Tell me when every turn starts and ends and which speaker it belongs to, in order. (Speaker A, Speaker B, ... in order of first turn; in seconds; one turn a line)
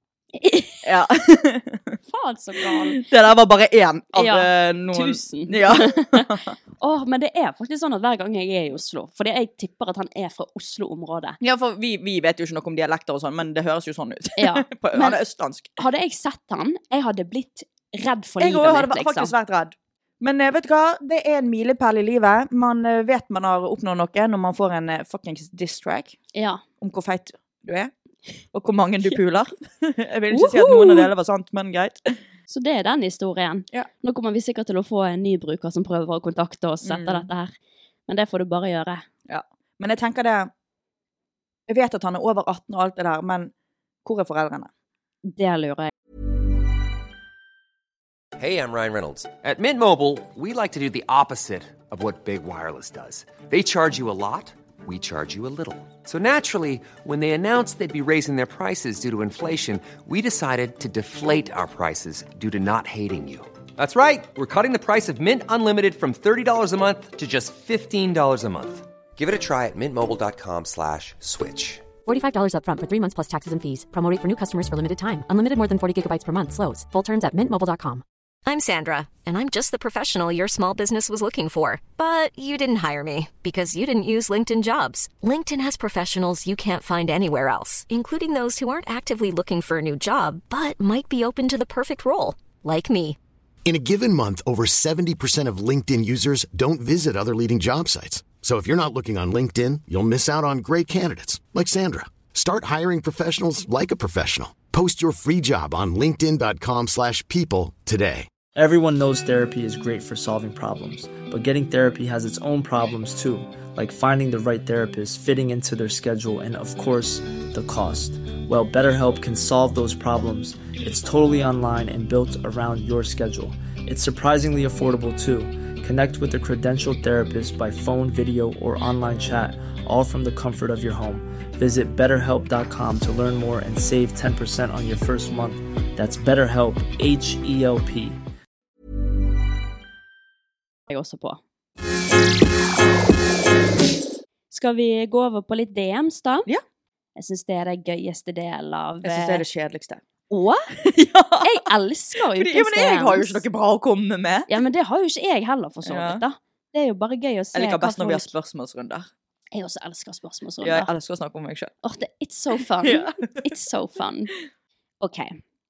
Speaker A: 0.4-0.9
Speaker B: 0.8-2.0
Speaker A: 2.1-3.0
Speaker B: 2.7-6.5
Speaker A: 4.2-6.3
Speaker A: 6.8-11.4
Speaker B: 11.4-15.7
Speaker A: 14.4-15.2
Speaker A: 15.8-19.3
Speaker B: 18.4-26.2
Speaker A: 26.3-26.6
Speaker B: 26.8-27.9
Speaker B: 28.5-32.2
Speaker A: 30.3-31.1
Speaker A: 32.5-37.5
Speaker B: 36.8-37.3
Speaker A: 38.1-39.0
Speaker B: 39.3-40.5
Speaker B: 41.7-43.5
Speaker B: 44.0-44.7
Speaker A: 45.3-45.9
Speaker C: 48.4-71.9
Speaker D: 72.0-78.0
Speaker E: 78.5-93.2
Speaker F: 93.7-108.3
Speaker G: 108.6-138.2
Speaker A: 140.9-141.4
Speaker A: 144.5-146.5
Speaker A: 147.2-149.4
Speaker B: 149.0-150.0
Speaker A: 150.3-150.7
Speaker B: 150.8-151.5
Speaker A: 151.4-153.4
Speaker B: 152.3-154.5
Speaker A: 154.5-158.3
Speaker B: 155.9-156.2
Speaker B: 157.6-159.1
Speaker A: 159.5-160.9
Speaker B: 160.6-161.7
Speaker A: 161.8-164.3
Speaker B: 162.8-163.4
Speaker A: 165.0-165.4